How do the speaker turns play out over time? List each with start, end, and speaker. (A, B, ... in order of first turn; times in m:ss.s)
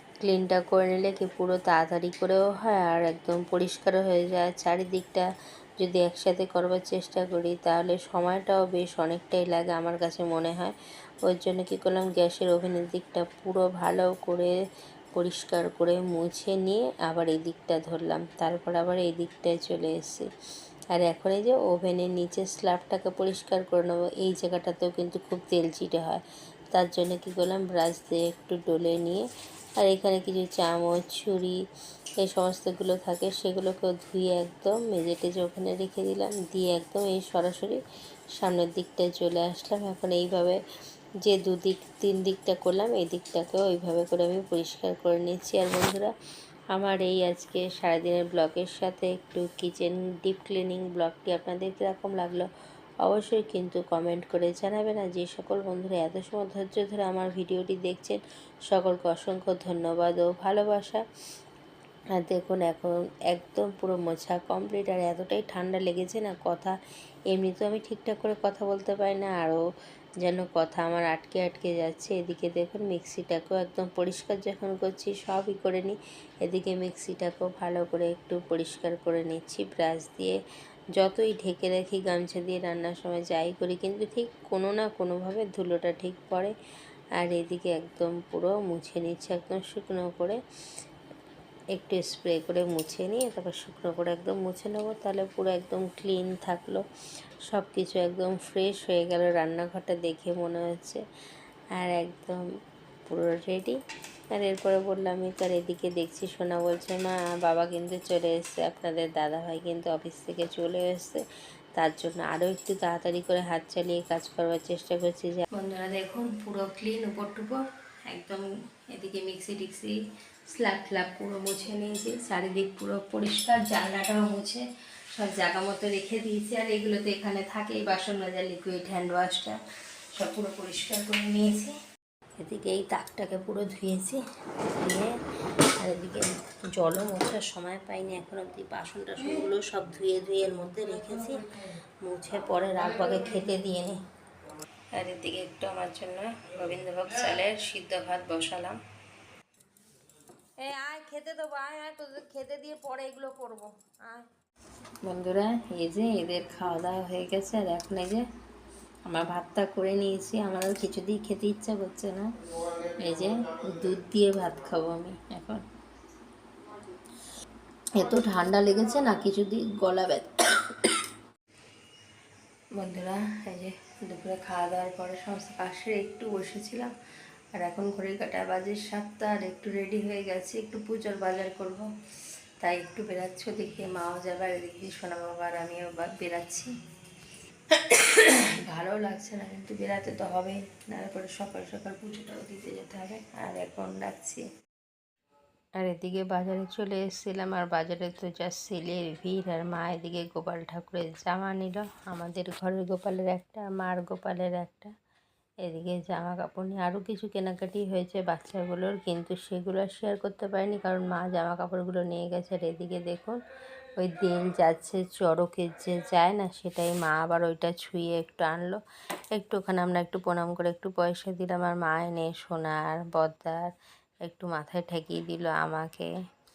0:00.2-0:05.3 A
0:05.8-0:14.6 A
0:15.1-0:20.3 A
0:20.9-0:31.6 A
0:32.2-0:37.8 A
0:38.4-0:40.6 A
0:41.2-0:46.1 A
0:46.7-0:52.5 A
0:53.0-1:01.0 A
1:02.2-1:06.8 A
1:07.3-1:09.6 A
1:10.2-1:20.4 A
1:21.0-1:26.6 A
1:27.2-1:30.4 A
1:31.8-1:36.8 A
1:37.5-1:41.0 A
1:41.8-1:42.4 A
1:43.1-1:43.8 A
1:44.3-1:51.2 A
1:51.8-2:00.0 A
2:00.5-2:09.6 A
2:10.2-2:11.8 A
2:12.4-2:15.1 A
2:15.8-2:21.5 A
2:22.0-2:24.0 A
2:24.9-2:28.8 A
2:30.6-2:34.3 A
2:35.0-2:38.3 A
2:39.0-2:45.6 A
2:48.0-2:50.9 A
2:52.8-2:56.9 A
2:57.6-3:01.9 A
3:02.6-3:06.7 A
3:07.7-3:14.5 A
3:15.8-3:24.9 A
3:25.6-3:33.4 A
3:34.0-3:38.8 A
3:39.3-3:43.7 A
3:44.2-3:46.1 A